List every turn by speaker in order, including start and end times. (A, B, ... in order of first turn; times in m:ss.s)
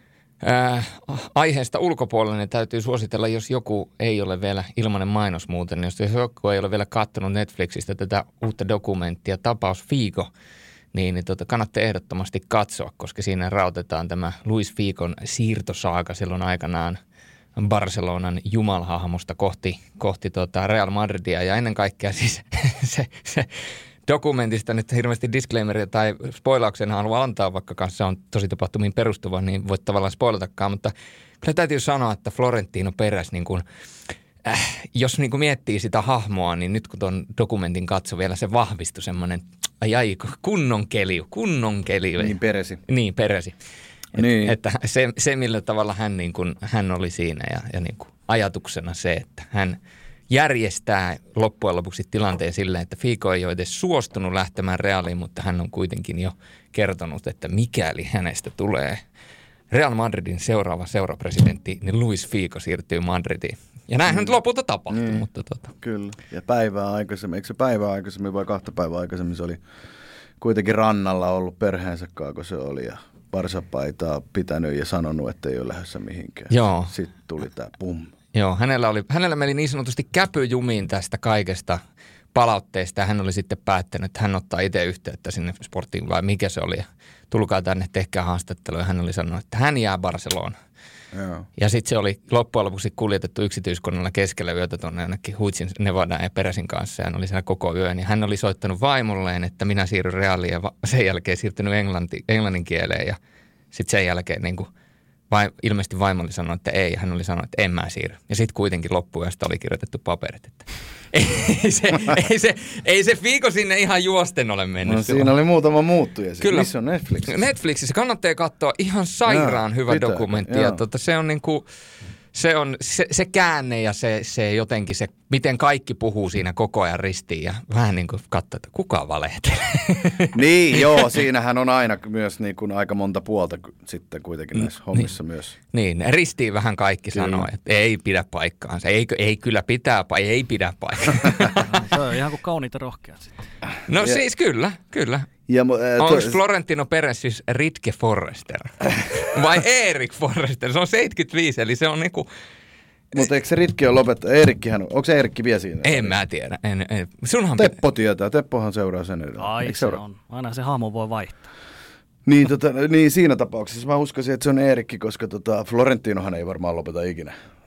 0:00.4-0:10.3 A
0:10.9-0:17.0 A
0:17.6-0:23.5 A
0:24.0-0:33.6 A
0:34.4-0:42.4 A
0:42.2-0:42.8 B
0:42.9-0:43.5 A
0:44.1-0:44.5 B
0:44.1-0:49.8 A
0:50.3-0:59.0 A
0:59.7-1:05.7 A
1:04.1-1:04.3 B
1:04.9-1:05.2 B
1:05.8-1:09.6 B
1:10.4-1:18.1 B
1:16.5-1:16.9 A
1:18.3-1:21.8 A
1:22.3-1:30.6 A
1:31.1-1:31.4 B
1:31.6-1:43.2 A
1:43.7-1:44.7 A
1:45.3-1:55.3 A
1:54.8-1:57.3 B
1:56.4-1:56.7 A
1:57.3-2:01.6 A
1:59.2-2:00.8 B
2:02.3-2:10.3 A
2:10.3-2:15.5 B
2:15.7-2:21.6 A
2:17.1-2:17.5 B
2:21.7-2:23.3 C
2:23.9-2:25.3 A
2:25.5-2:26.4 B
2:26.0-2:32.3 A
2:33.1-2:36.2 B
2:35.8-2:37.8 A
2:37.6-2:40.0 B
2:39.4-2:41.4 C
2:42.2-2:47.3 B